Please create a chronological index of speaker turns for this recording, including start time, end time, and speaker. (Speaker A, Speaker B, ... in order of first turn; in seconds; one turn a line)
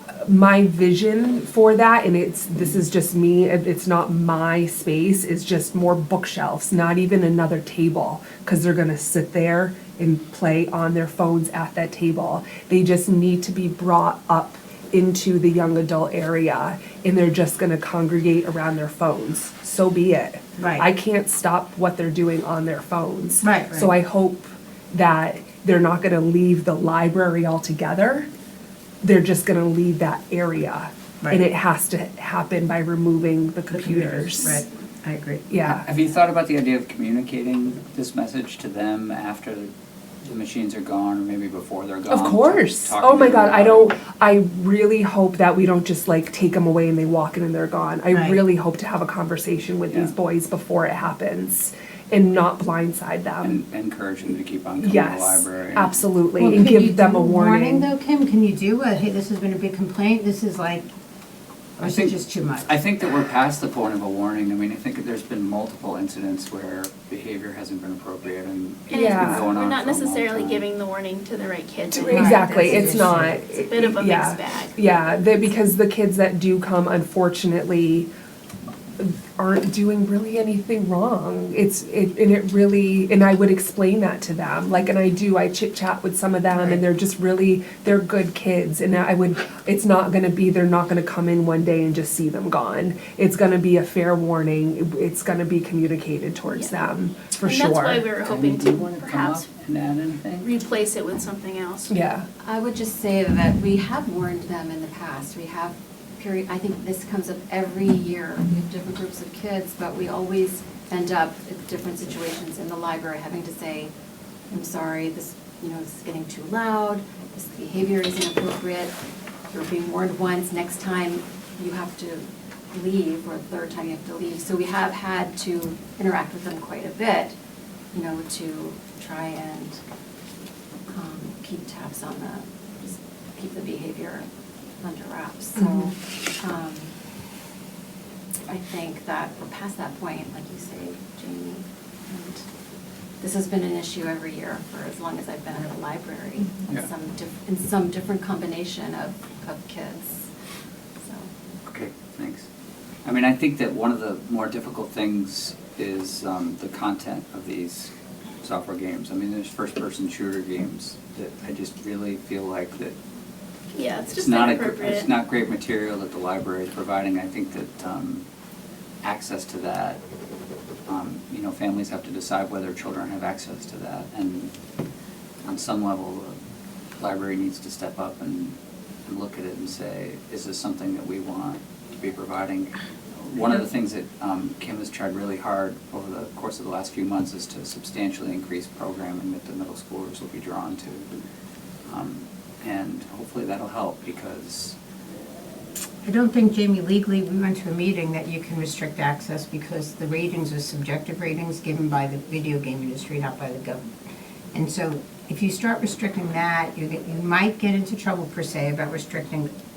Speaker A: 0.2-28.3
Speaker B: 20.6-20.9
Speaker B: 23.4-23.9
Speaker A: 29.0-34.6
Speaker B: 33.7-35.5
Speaker A: 35.5-35.8
Speaker C: 35.6-39.7
Speaker C: 40.2-44.0
Speaker A: 42.1-53.6
Speaker B: 48.1-48.4
Speaker C: 49.9-50.1
Speaker C: 53.4-56.6
Speaker A: 54.8-57.9
Speaker B: 56.4-60.9
Speaker B: 61.8-62.7
Speaker C: 61.8-70.7
Speaker D: 68.9-75.5
Speaker A: 68.9-69.5
Speaker A: 71.9-78.1
Speaker B: 72.0-73.4
Speaker A: 79.0-98.1
Speaker D: 96.5-96.8
Speaker D: 97.4-99.5
Speaker C: 98.2-100.5
Speaker D: 100.4-101.9
Speaker A: 101.9-102.2
Speaker E: 102.4-113.9
Speaker E: 114.5-118.9
Speaker E: 119.5-127.3
Speaker E: 127.9-129.8
Speaker E: 130.9-134.3
Speaker E: 134.8-136.9
Speaker A: 135.5-135.9
Speaker E: 138.5-142.4
Speaker E: 143.2-150.3
Speaker E: 151.0-151.3
Speaker C: 151.7-152.5
Speaker C: 153.0-162.9
Speaker D: 163.7-165.1
Speaker C: 164.1-168.2
Speaker C: 169.0-170.0
Speaker C: 170.9-174.5
Speaker C: 175.4-176.4
Speaker C: 177.0-191.1
Speaker C: 191.9-194.8
Speaker B: 196.0-203.9
Speaker B: 204.5-209.5